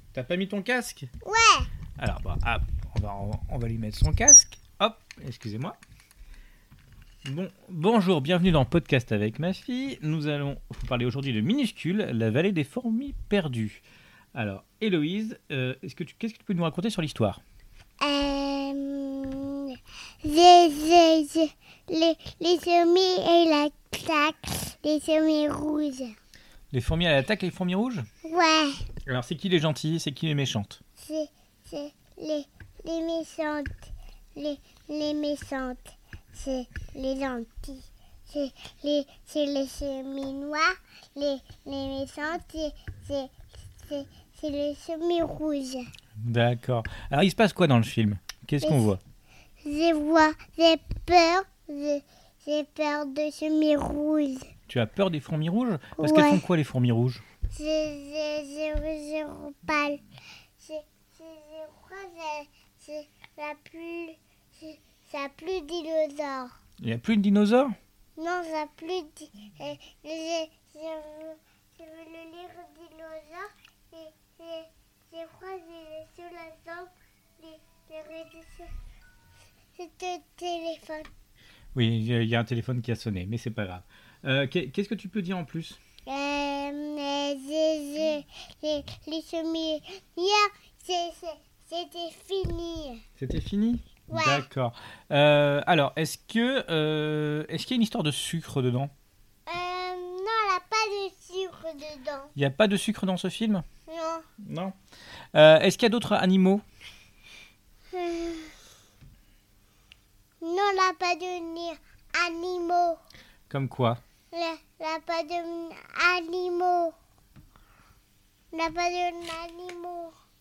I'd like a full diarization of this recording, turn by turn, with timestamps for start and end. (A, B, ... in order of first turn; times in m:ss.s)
0:00.1-0:01.1 A
0:01.2-0:01.7 B
0:02.0-0:05.8 A
0:07.2-0:13.8 A
0:14.3-0:17.4 A
0:18.0-0:26.1 B
0:26.7-0:28.0 A
0:28.2-0:28.8 B
0:29.0-0:30.8 A
0:31.0-0:33.8 B
0:34.4-0:45.8 B
0:46.2-0:49.0 A
0:48.6-0:48.9 B
0:49.6-0:54.5 B
0:54.7-0:57.2 A
0:56.0-0:56.4 B
0:57.5-1:00.0 B
1:00.6-1:06.5 B
1:06.8-1:07.7 A
1:08.2-1:18.7 B
1:19.8-1:21.1 B
1:21.7-1:25.8 A
1:26.0-1:33.0 B
1:33.2-1:38.9 A
1:34.1-1:34.4 B
1:39.5-1:42.3 B
1:42.4-1:43.6 A
1:43.9-1:44.2 B
1:44.4-1:44.7 A
1:45.3-1:46.6 A
1:47.9-1:48.6 B
1:50.4-1:53.0 B
1:53.5-1:54.0 A
1:54.3-1:56.9 B
1:58.5-2:00.1 B